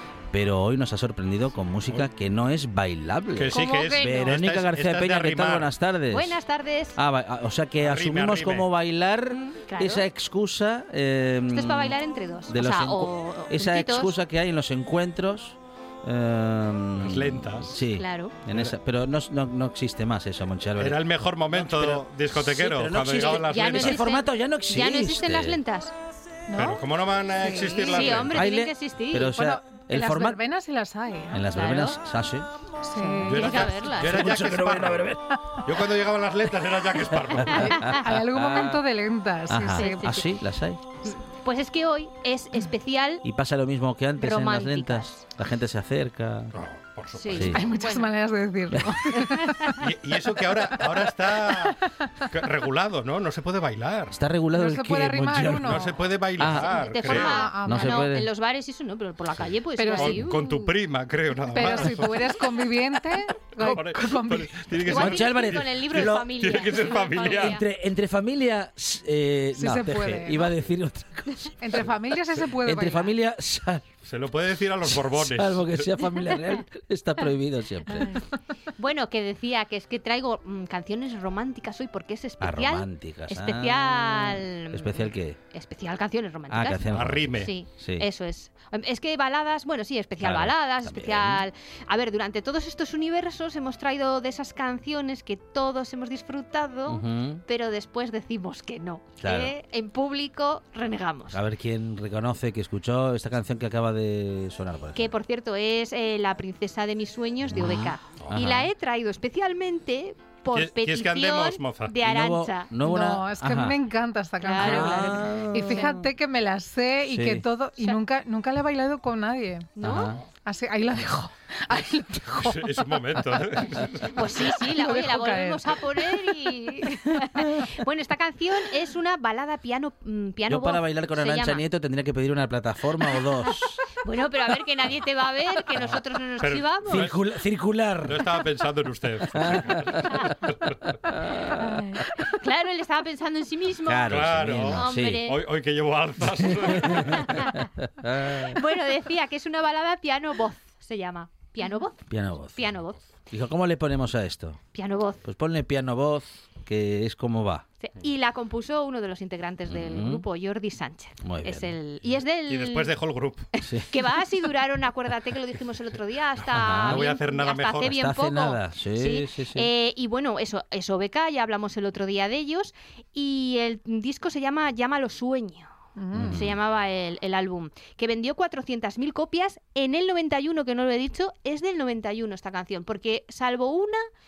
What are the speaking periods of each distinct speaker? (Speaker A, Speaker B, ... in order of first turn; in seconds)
Speaker A: 0.3-6.3, 6.9-25.6, 28.2-30.4, 31.3-32.5, 33.4-35.2, 37.4-38.8, 39.5-40.8, 43.2-46.5, 47.3-47.6, 48.7-49.1, 54.1-56.7, 57.6-58.3, 64.8-73.9, 74.8-78.2, 82.4-85.4, 86.5-88.0, 90.2-91.4, 96.9-97.4, 99.2-99.5, 101.3-105.1, 107.5-108.7, 112.0-113.8, 114.5-116.1, 117.0-117.5, 119.8-120.2, 130.5-133.8, 136.9-138.3, 139.3-140.1, 141.1-141.8, 143.8-145.2, 146.7-148.6, 152.1-152.7, 153.3-154.6, 155.2-157.6, 159.7-160.2, 161.2-161.7, 163.6-163.9, 166.5-167.1, 167.8-169.7, 176.1-176.5
Speaker B: 3.3-5.7, 7.8-8.7, 17.0-17.8, 20.8-24.1, 26.5-28.4, 33.2-37.9, 46.5-47.5, 49.8-54.1, 55.6-57.5, 59.9-62.4, 63.5-67.6, 74.0-76.0, 86.9-87.5, 108.2-108.5, 110.5-112.0, 119.8-120.2, 122.4-124.2, 135.8-137.2, 138.0-141.0, 144.1-147.5, 162.5-163.4, 166.7-167.9
Speaker C: 3.5-4.4, 6.1-7.0, 9.3-10.1, 11.5-14.1, 17.9-18.3, 23.4-25.9, 27.8-29.3, 31.5-32.0, 33.2-34.5, 37.5-38.0, 39.7-40.2, 41.0-43.2, 44.2-45.2, 47.1-48.1, 56.5-60.7, 64.8-67.6, 78.8-101.4, 104.9-112.7, 114.4-115.9, 119.7-120.2, 124.1-131.6, 134.0-137.1, 141.7-145.4, 147.1-147.6, 148.5-153.0, 154.7-155.2, 157.8-163.0, 163.6-184.1
Speaker D: 26.5-28.1, 29.2-31.5, 32.8-33.6, 37.5-40.2, 47.5-49.7, 54.5-55.9, 57.0-58.1, 59.8-60.5, 61.5-64.7, 69.5-70.5, 71.6-73.1, 112.8-119.7, 120.4-123.2, 124.4-127.6, 175.9-176.4